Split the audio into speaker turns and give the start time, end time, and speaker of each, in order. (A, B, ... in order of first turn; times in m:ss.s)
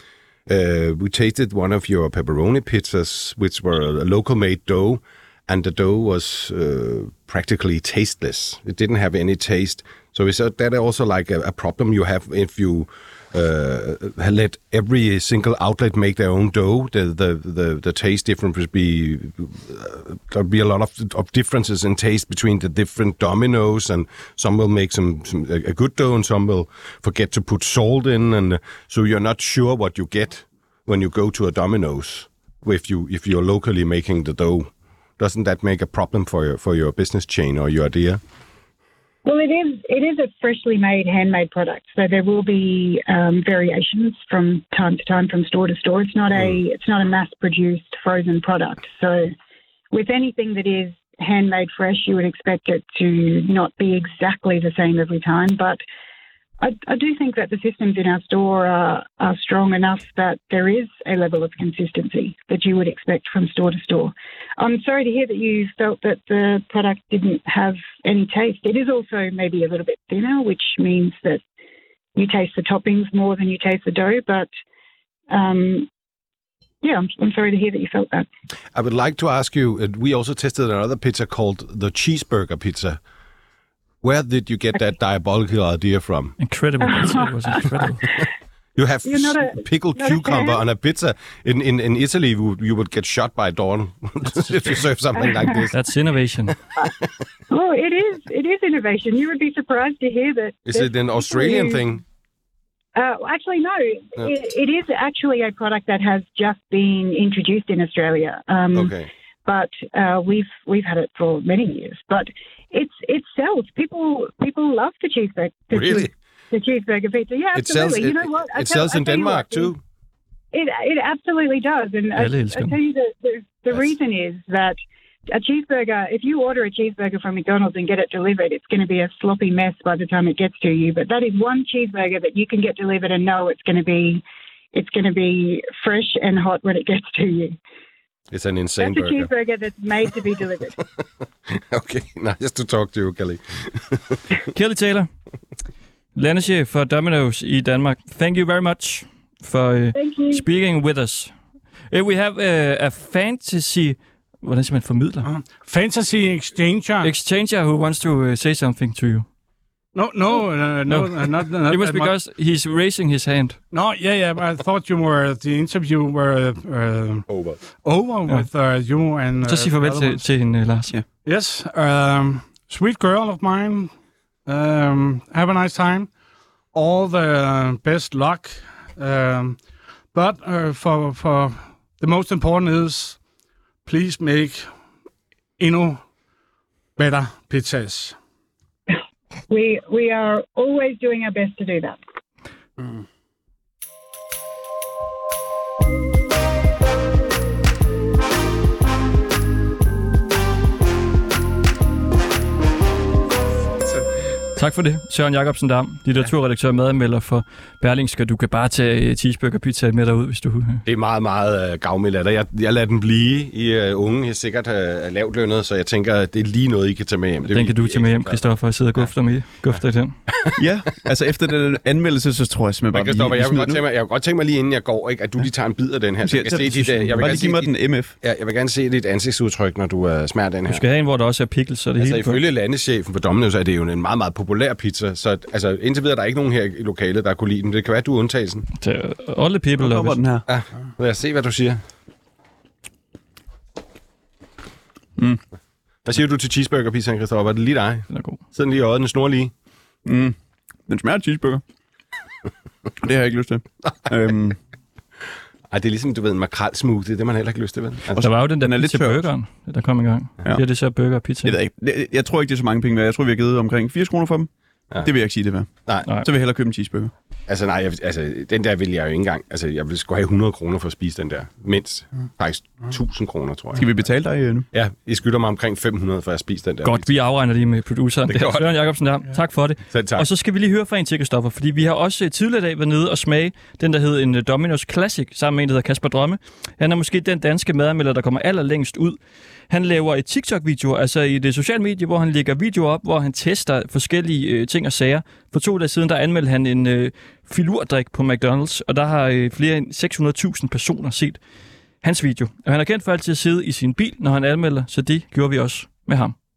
0:00.5-0:38.2 A
0:39.2-0:49.3 B
0:46.3-0:46.6 A
0:49.9-0:55.8 B
0:56.6-1:11.4 B
1:12.2-1:14.5 B
1:15.3-1:15.9 B
1:16.8-1:18.3 B
1:18.7-1:23.0 A
1:24.0-1:26.4 A
1:26.4-1:28.0 C
1:26.9-1:28.2 B
1:28.8-1:35.8 A
1:29.0-1:30.6 B
1:35.2-1:35.7 B
1:35.7-1:36.6 C
1:37.5-1:41.8 B
1:40.7-1:42.0 A
1:43.0-1:59.7 B
1:48.7-1:49.1 A
1:55.7-1:56.1 A
1:57.5-1:59.8 A
2:00.5-2:17.6 B
2:02.1-2:02.8 C
2:18.3-2:19.3 A
2:18.8-2:20.7 B
2:21.5-2:24.2 A
2:24.5-2:25.1 C
2:26.2-2:31.3 C
2:29.9-2:30.4 B
2:31.9-2:35.3 C
2:35.2-2:37.1 D
2:37.0-2:39.3 C
2:40.0-2:42.1 D
2:40.9-2:43.6 C
2:43.7-2:47.3 D
2:47.3-2:47.6 A
2:47.8-2:50.2 D
2:49.5-2:50.9 C
2:51.2-2:53.9 D
2:54.5-2:56.1 D
2:56.7-2:59.6 D
3:00.1-3:03.2 D
3:03.9-3:04.7 D
3:05.6-3:06.0 D
3:07.0-3:08.2 D
3:08.9-3:12.0 B
3:24.6-3:30.8 C
3:30.8-3:39.8 A
3:37.5-3:40.2 C
3:40.6-3:43.8 E
3:42.9-3:50.8 A
3:46.2-3:48.1 E
3:50.7-3:52.4 C
3:52.0-3:58.7 A
3:58.8-4:00.2 C
3:59.8-4:00.4 E
4:00.5-4:01.8 A
4:06.0-4:09.5 A
4:08.1-4:08.4 C
4:10.0-4:10.4 E
4:10.9-4:11.6 E
4:13.0-4:14.6 E
4:15.7-4:18.2 A
4:18.1-4:19.3 E
4:18.2-4:21.6 C
4:21.4-4:24.5 E
4:25.0-4:27.1 E
4:27.5-4:34.1 A
4:33.8-4:34.7 E
4:34.7-4:37.1 A
4:36.8-5:01.4 C
4:38.3-4:38.8 A
4:39.9-4:40.3 A
5:02.0-5:06.4 C